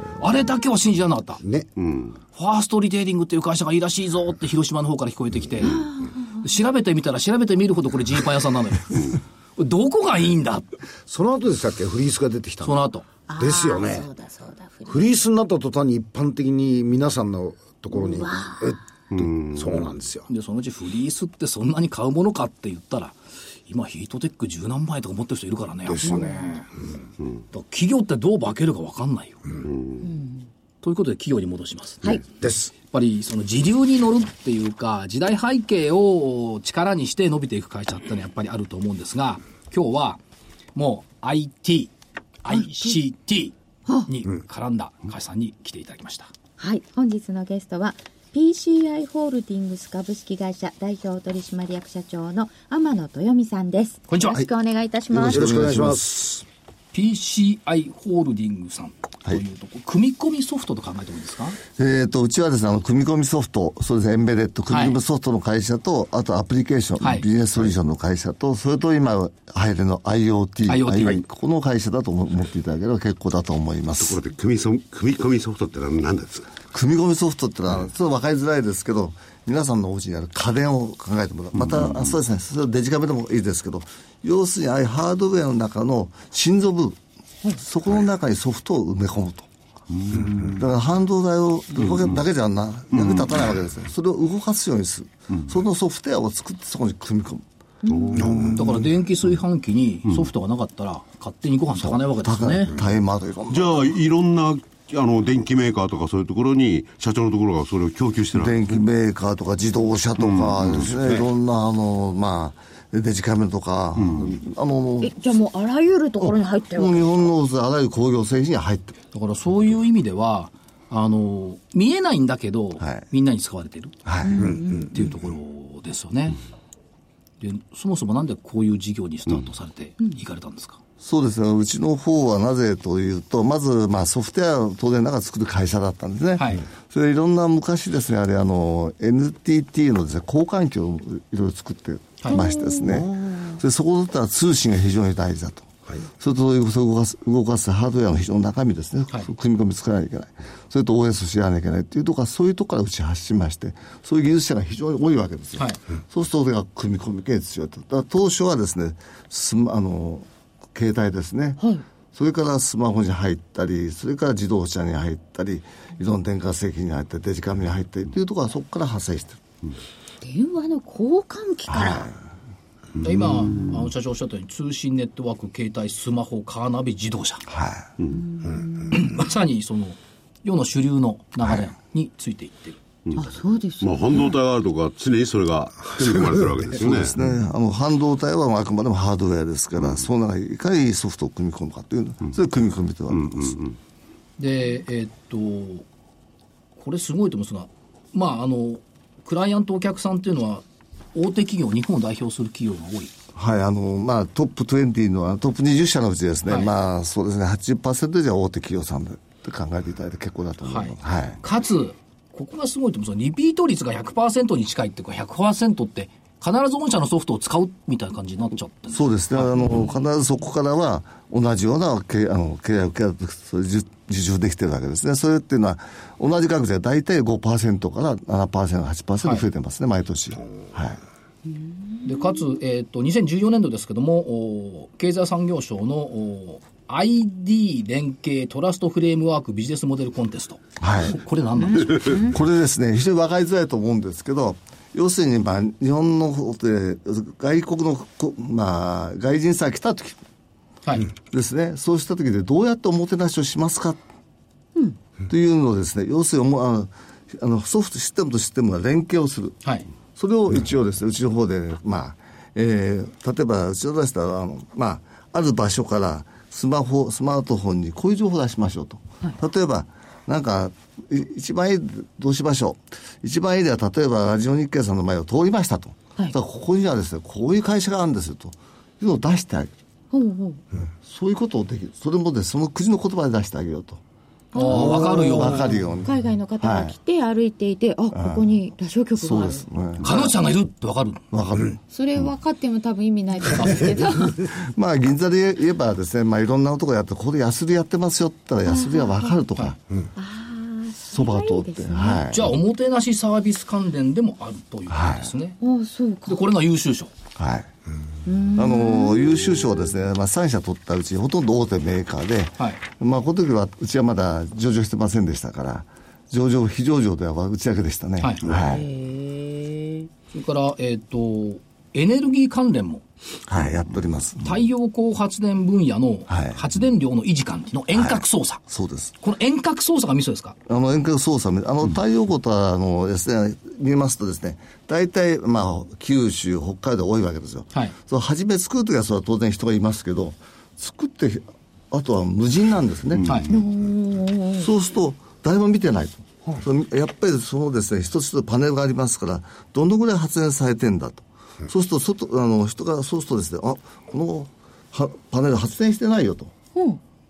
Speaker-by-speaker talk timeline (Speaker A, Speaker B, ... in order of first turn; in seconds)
Speaker A: 0.2-1.4, 2.3-5.9, 6.4-10.7, 12.6-13.0, 20.3-26.6, 27.5-29.5, 30.8-32.0, 32.9-40.2, 40.8-41.9, 42.4-46.3, 54.1-54.5, 56.9-61.6, 64.7-65.0, 67.0-67.2, 70.7-71.2, 98.5-102.7, 119.1-124.0, 124.7-126.4, 127.4-130.8, 136.4-136.7, 173.0-177.4, 178.9-182.8, 194.4-195.8, 196.8-203.1, 210.7-219.8, 232.1-242.3, 284.5-285.8, 290.0-291.2, 302.3-305.6, 306.2-307.1, 320.3-323.0, 324.4-328.6, 329.2-330.6, 343.2-343.5
Speaker B: 1.4-1.7, 11.1-12.8, 13.4-14.1, 14.9-18.8, 19.4-20.3, 25.9-26.5, 32.1-32.7, 55.2-56.4, 98.2-98.6, 124.4-124.8
Speaker C: 1.8-2.2, 19.1-19.9, 29.6-30.0, 74.0-76.5, 81.6-82.1, 89.9-90.5, 92.9-93.5, 97.9-98.5, 103.5-108.7, 110.2-111.2, 114.0-114.4, 178.0-178.2, 183.1-187.2, 193.1-193.8, 343.2-343.5
Speaker D: 5.6-6.4, 13.3-15.1, 17.9-18.8, 26.1-26.6, 30.0-30.5, 42.5-42.9, 46.6-55.6, 97.8-98.4, 115.0-117.3, 124.2-125.0, 142.3-143.6, 170.2-172.1, 178.1-179.0, 183.2-184.4, 231.5-232.4, 241.7-242.3, 280.1-280.6, 284.5-289.7, 291.9-294.5, 298.7-299.4, 300.2-302.3, 305.6-306.4, 308.2-309.7, 318.5-320.1, 343.5-344.7
Speaker E: 55.1-56.0, 61.8-74.2, 76.7-87.0, 87.6-89.5, 90.3-97.5, 101.8-103.8, 108.3-115.1, 116.2-119.0, 124.0-124.6, 131.0-161.6, 162.1-169.4, 171.7-172.2, 177.5-177.9, 186.8-193.6, 203.3-211.4, 218.9-231.0, 240.8-241.2, 242.1-250.2, 251.2-254.0, 255.3-259.6, 260.1-279.7, 281.0-284.0, 284.6-287.0, 288.1-288.5, 289.2-290.3, 291.3-291.8, 294.5-299.8, 301.1-302.5, 304.9-305.3, 307.4-307.7, 308.5-318.9, 323.5-324.6, 326.3-326.6, 327.9-329.1, 330.7-343.6, 344.6-356.5